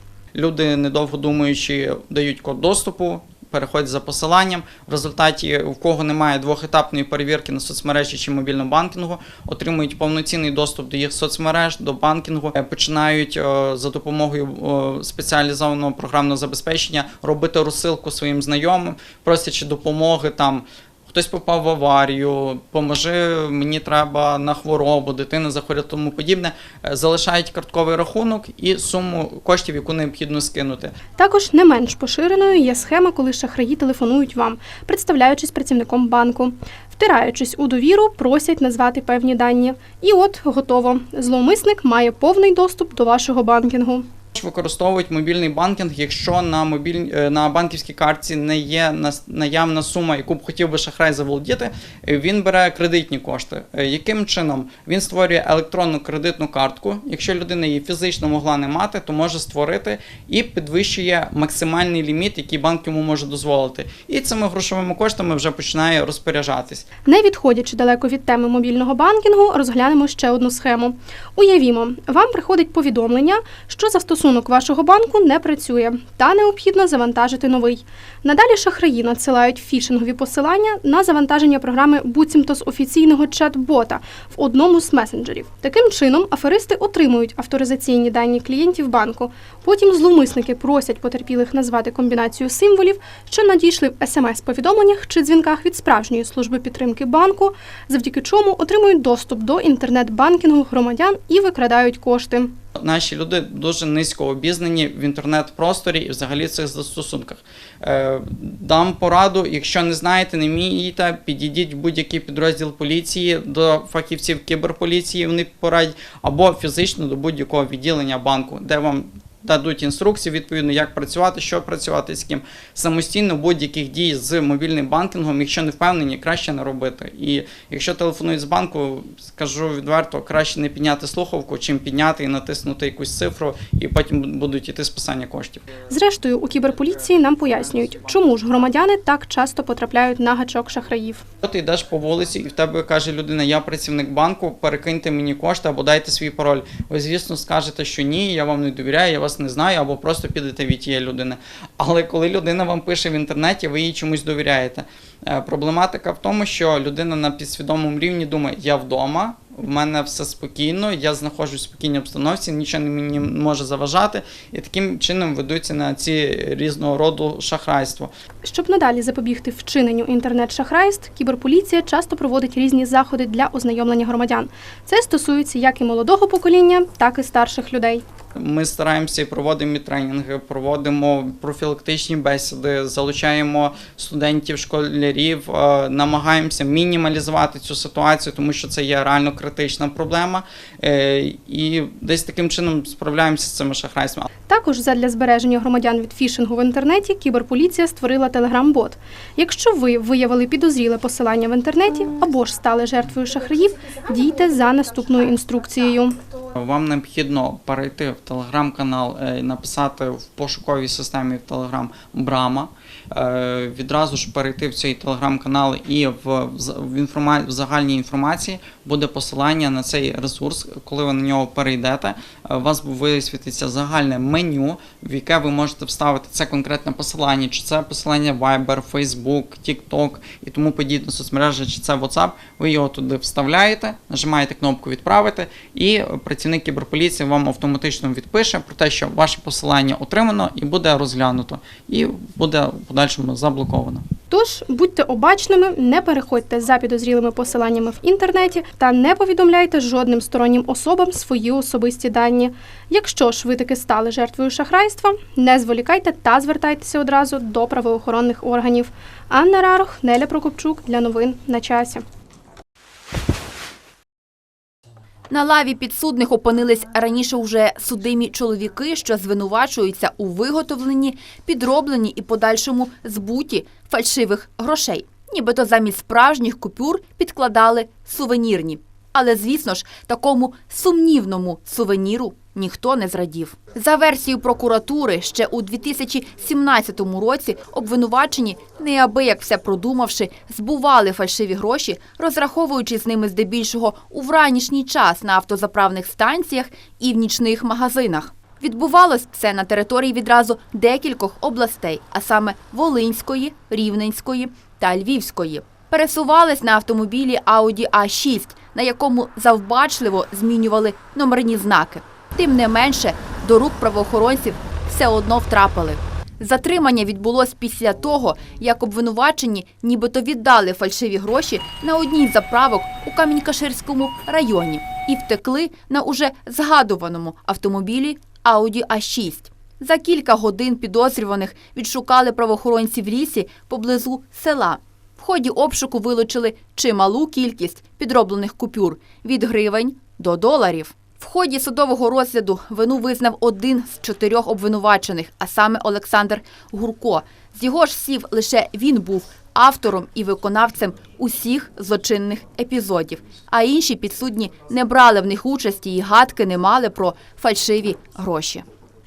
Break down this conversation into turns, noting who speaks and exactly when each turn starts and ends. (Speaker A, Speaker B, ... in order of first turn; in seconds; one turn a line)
Speaker A: 0.3-30.9
Speaker B: 31.2-44.1
Speaker A: 44.3-66.8
Speaker B: 67.0-102.5
Speaker A: 102.8-135.7
Speaker B: 135.9-141.2
Speaker A: 141.4-168.1
Speaker B: 168.4-178.0
Speaker A: 178.3-194.2
Speaker B: 194.5-206.2
Speaker A: 206.5-244.0
Speaker B: 244.3-262.0
Speaker C: 265.3-358.6